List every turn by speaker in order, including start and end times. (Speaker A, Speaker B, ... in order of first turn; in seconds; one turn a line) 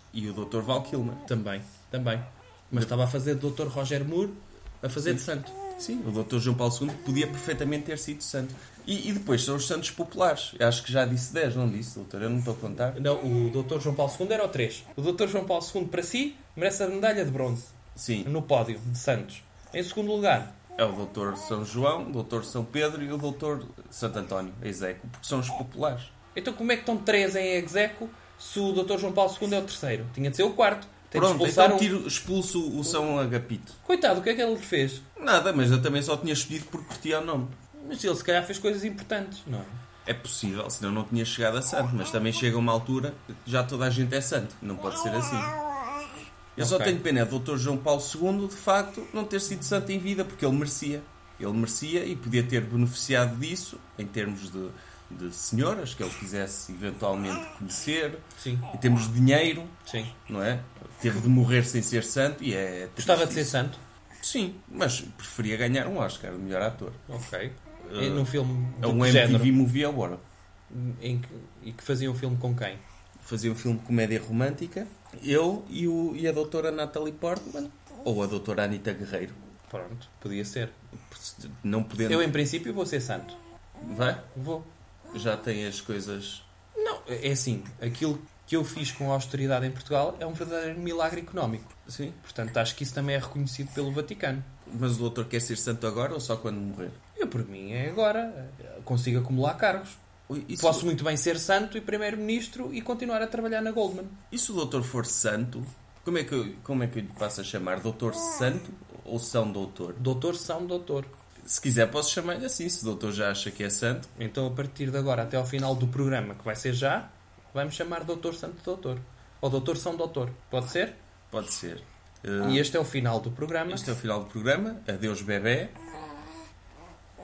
Speaker A: 0.1-1.2
Speaker B: 1.2-5.6
Speaker A: 5.8-13.0
Speaker B: 12.9-17.7
Speaker A: 18.0-18.3
Speaker B: 18.2-20.6
Speaker A: 20.8-26.1
Speaker B: 26.4-31.9
Speaker A: 31.1-33.8
Speaker B: 33.8-35.1
Speaker A: 35.2-37.6
Speaker B: 37.7-39.8
Speaker A: 40.0-45.6
Speaker A: 46.6-63.5
Speaker B: 46.6-47.0
Speaker B: 58.4-58.7
Speaker B: 59.9-60.1
Speaker B: 63.0-63.8
Speaker A: 64.2-67.0
Speaker B: 67.1-69.6
Speaker A: 67.8-70.2
Speaker B: 70.7-72.8
Speaker A: 73.2-79.4
Speaker B: 79.7-80.8
Speaker A: 80.9-82.3
Speaker B: 82.1-83.4
Speaker A: 83.8-84.3
Speaker B: 84.3-84.7
Speaker A: 85.1-86.5
Speaker B: 86.8-94.5
Speaker A: 91.9-92.2
Speaker A: 94.7-97.0
Speaker B: 97.2-100.0
Speaker A: 100.3-100.9
Speaker B: 100.6-104.2
Speaker A: 104.3-110.0
Speaker B: 110.0-111.1
Speaker A: 111.4-114.1
Speaker B: 114.2-121.0
Speaker A: 121.3-122.7
Speaker B: 122.4-123.9
Speaker A: 123.7-125.8